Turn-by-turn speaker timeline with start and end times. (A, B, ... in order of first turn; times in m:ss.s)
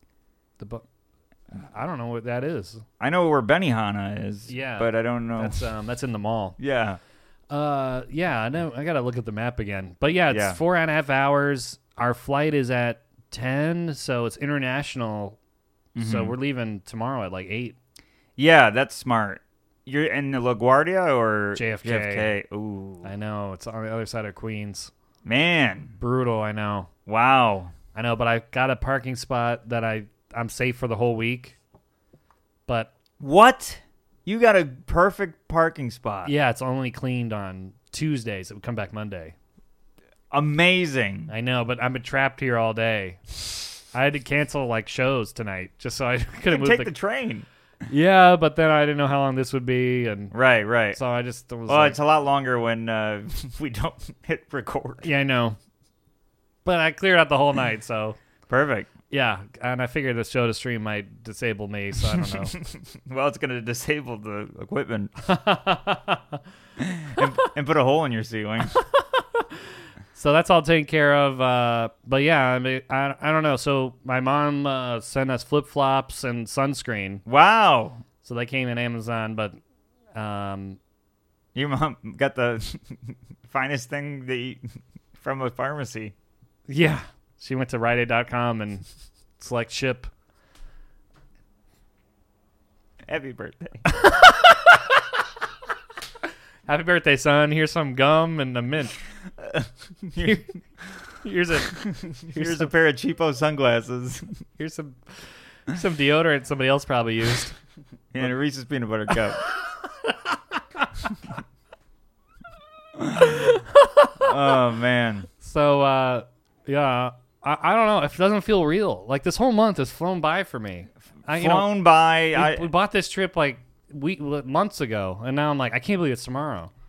0:00.6-0:00.8 A
0:01.6-0:02.8 A
0:03.0-0:05.6 B
0:04.5-0:06.6 A
0:06.6-0:07.0 B
0:07.5-0:15.4 A
0:10.3-0:10.6 B
0:15.9-0:16.3 B
0:16.0-0:17.8 A
0:18.4-0:23.1 B
0:21.6-0:22.3 A
0:23.0-0:24.9 A
0:25.2-0:25.9 B
0:26.0-0:26.9 A
0:27.1-0:27.7 B
0:27.9-0:31.6 A
0:33.2-0:36.3 B
0:36.2-0:39.4 A
0:40.3-0:41.3 B
0:41.3-0:43.2 A
0:43.8-0:46.9 A
0:46.5-0:47.4 B
0:47.9-0:50.3 A
0:50.3-0:51.0 B
0:50.9-0:52.0 A
0:51.7-0:55.1 B
0:55.0-0:55.6 A
0:56.6-0:58.2 A
0:58.5-0:58.9 B
0:59.1-1:02.5 A
1:02.5-1:05.1 B
1:05.2-1:06.4 A
1:06.8-1:08.8 B
1:08.8-1:09.6 A
1:10.1-1:17.2 A
1:17.3-1:18.0 B
1:18.2-1:19.6 A
1:20.1-1:20.8 A
1:21.6-1:24.6 B
1:25.2-1:26.1 B
1:26.7-1:28.8 A
1:29.4-1:30.1 A
1:33.1-1:33.8 B
1:34.0-1:34.9 A
1:36.7-1:38.9 A
1:39.4-1:40.4 B
1:40.2-1:40.5 A
1:41.2-1:42.7 A
1:41.8-1:44.3 B
1:44.6-1:47.6 A
1:48.1-1:49.4 B
1:50.0-1:50.9 A
1:53.2-1:54.3 A
1:54.2-1:55.3 B
1:55.4-2:01.7 A
2:01.3-2:02.7 B
2:02.3-2:06.7 A